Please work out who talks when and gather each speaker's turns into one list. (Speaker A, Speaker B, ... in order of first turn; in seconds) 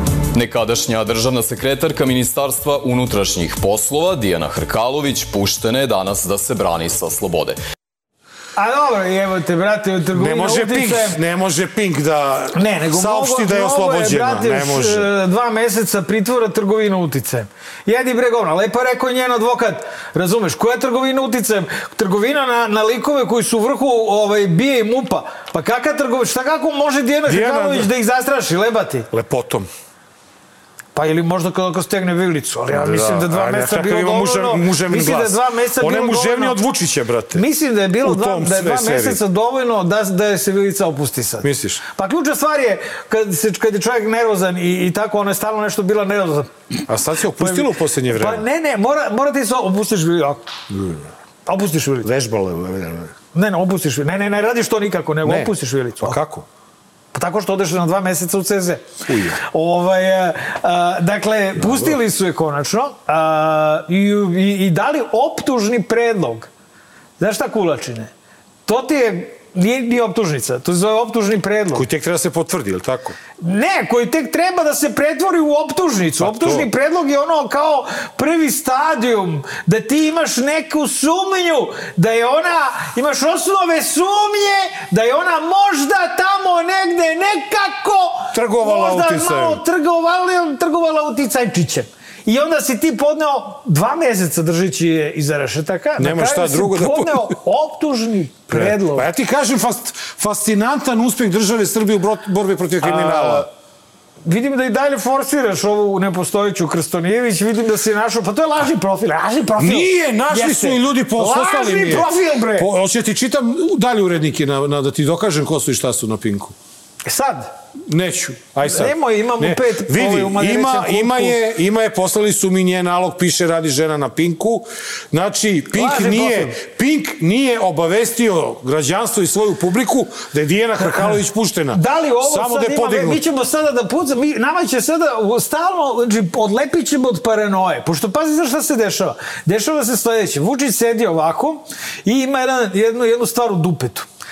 Speaker A: 0.3-7.6
Speaker B: 8.6-11.2, 12.5-29.1, 30.9-36.6, 37.3-46.5, 47.4-50.4, 51.5-52.1, 53.3-56.2, 57.1-58.8, 59.4-66.5, 67.2-68.1, 68.7-71.8, 73.4-99.1, 102.8-103.5, 104.2-112.7, 117.0-117.5, 118.6-121.3, 125.7-126.5, 131.7-144.1
Speaker C: 10.1-15.1, 27.3-27.9, 29.1-29.7, 32.7-37.4, 38.0-39.2, 41.4-41.8, 46.9-48.4, 50.7-51.1, 52.0-53.1, 55.2-56.5, 59.0-59.4, 61.6-61.9, 71.7-73.2, 76.2-76.7, 88.3-89.6, 96.0-97.3, 98.5-103.5, 109.6-116.5, 117.9-133.2